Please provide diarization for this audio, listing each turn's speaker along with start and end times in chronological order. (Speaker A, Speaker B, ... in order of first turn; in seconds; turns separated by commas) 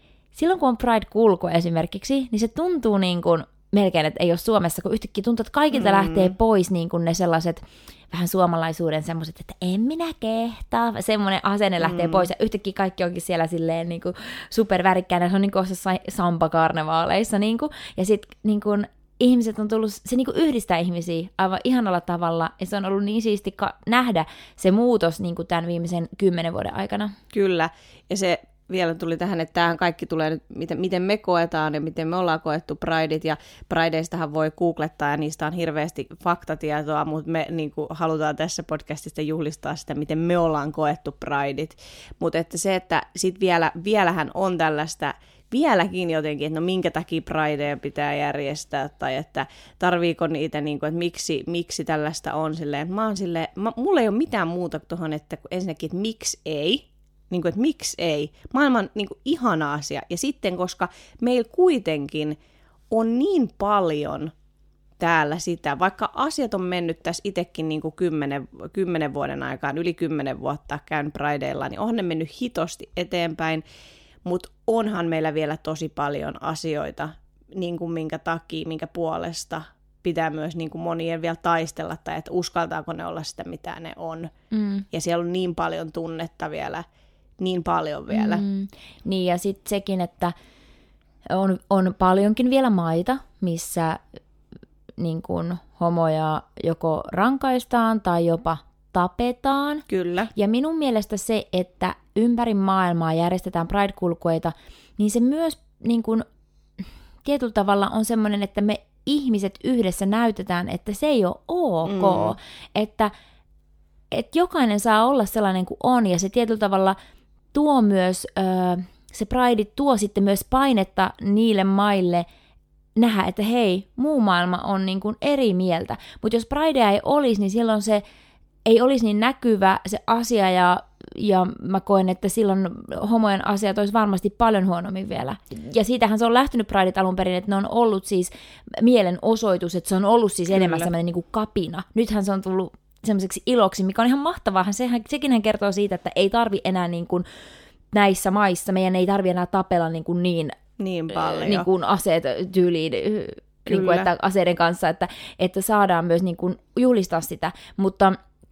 Speaker A: 0.3-27.1, Speaker B: 5.7-6.3, Speaker B: 11.8-12.3, Speaker B: 27.3-62.4, Speaker B: 62.9-64.3, Speaker B: 65.0-73.6, Speaker B: 74.2-84.3, Speaker A: 84.5-84.8, Speaker B: 84.9-86.8, Speaker B: 87.4-88.4, Speaker A: 88.1-90.3, Speaker A: 91.3-94.0, Speaker A: 95.0-106.2, Speaker B: 99.9-100.3, Speaker A: 107.2-113.1, Speaker B: 111.9-112.4, Speaker A: 114.1-117.0, Speaker A: 117.5-122.3, Speaker A: 123.0-128.0, Speaker A: 128.7-147.2, Speaker B: 140.5-140.9, Speaker A: 147.9-150.6, Speaker B: 150.8-151.7, Speaker A: 151.1-158.2, Speaker B: 153.7-154.1